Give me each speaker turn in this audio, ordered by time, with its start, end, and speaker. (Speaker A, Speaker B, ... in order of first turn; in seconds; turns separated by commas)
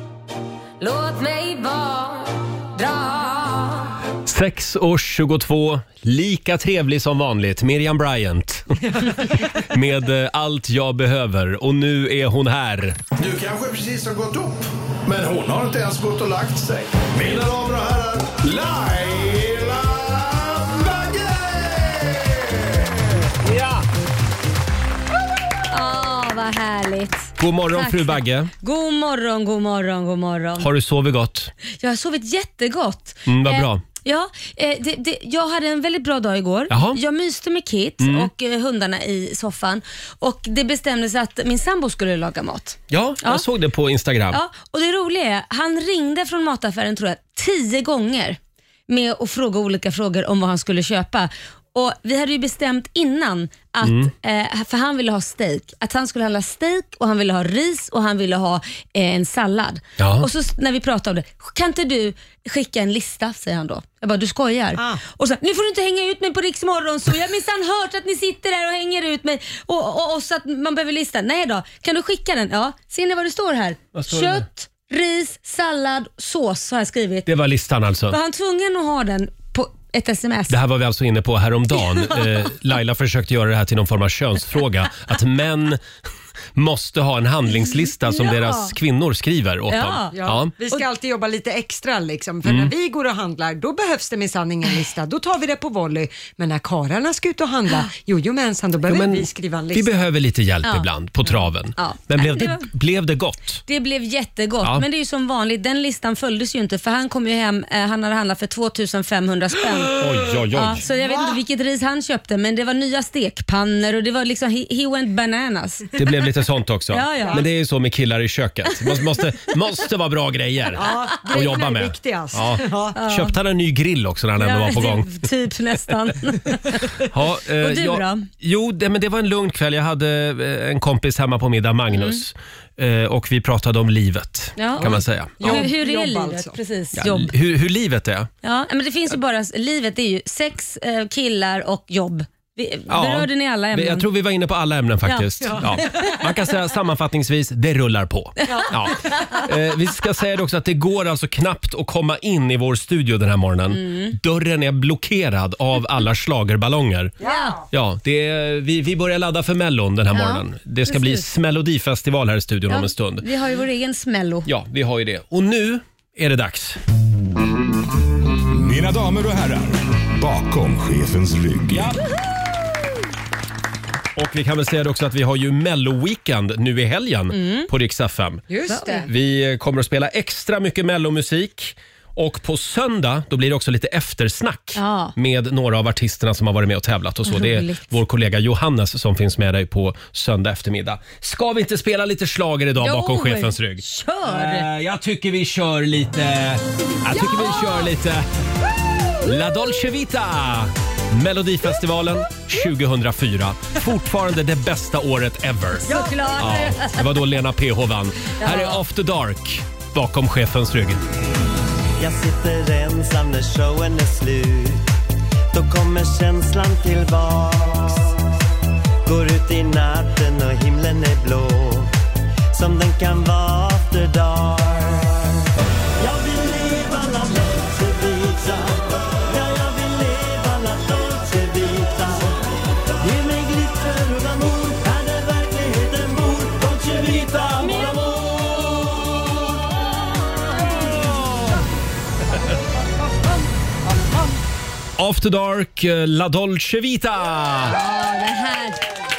Speaker A: 0.8-3.9, Speaker B: 4.2-13.0, Speaker C: 13.2-22.8, Speaker B: 23.4-23.8, Speaker A: 25.7-30.7, Speaker B: 27.4-28.5, Speaker B: 30.6-31.5, Speaker A: 31.7-43.4, Speaker B: 33.3-33.8, Speaker B: 36.7-37.0, Speaker B: 38.0-38.3, Speaker B: 42.9-44.4, Speaker A: 44.3-77.3, Speaker B: 53.8-54.1, Speaker B: 60.0-60.3, Speaker D: 64.8-65.0, Speaker B: 73.9-74.4, Speaker B: 77.3-78.2, Speaker A: 78.1-80.6, Speaker B: 80.5-85.8, Speaker A: 81.7-82.5, Speaker B: 86.5-90.5, Speaker A: 87.5-88.7, Speaker A: 89.7-90.1, Speaker D: 90.1-100.0, Speaker B: 92.4-92.7, Speaker B: 98.9-103.6, Speaker A: 100.6-102.7, Speaker A: 103.7-110.0, Speaker B: 110.0-110.8, Speaker A: 110.5-115.9, Speaker D: 111.0-111.3, Speaker B: 116.0-125.1, Speaker A: 116.9-117.4, Speaker D: 120.7-123.0, Speaker A: 123.0-123.3, Speaker A: 124.4-126.9, Speaker B: 127.1-135.7, Speaker A: 127.6-128.2, Speaker A: 134.6-137.3, Speaker D: 134.8-136.5, Speaker B: 137.0-138.3, Speaker A: 138.4-144.1, Speaker B: 142.9-157.1, Speaker A: 145.1-146.1, Speaker D: 145.5-146.1, Speaker D: 148.5-148.7, Speaker A: 153.7-154.2, Speaker A: 157.2-157.6, Speaker D: 157.2-157.6, Speaker B: 157.7-163.2, Speaker A: 160.1-161.2, Speaker A: 162.7-164.5, Speaker B: 164.5-166.8, Speaker C: 168.5-171.9, Speaker B: 171.7-172.0, Speaker B: 174.2-178.4, Speaker A: 177.3-177.7, Speaker D: 178.5-179.1, Speaker A: 178.7-179.1, Speaker B: 179.1-198.2, Speaker A: 184.8-185.1, Speaker A: 187.2-187.9, Speaker A: 192.8-194.7, Speaker A: 197.1-197.9, Speaker B: 199.2-211.1, Speaker A: 205.8-207.1, Speaker D: 205.9-206.4, Speaker A: 208.4-208.8, Speaker E: 212.0-214.8, Speaker E: 215.5-218.1, Speaker E: 219.0-221.9, Speaker E: 222.5-225.2, Speaker E: 226.0-232.4, Speaker E: 233.0-239.2, Speaker B: 241.1-241.5, Speaker B: 245.0-247.8, Speaker A: 247.6-248.9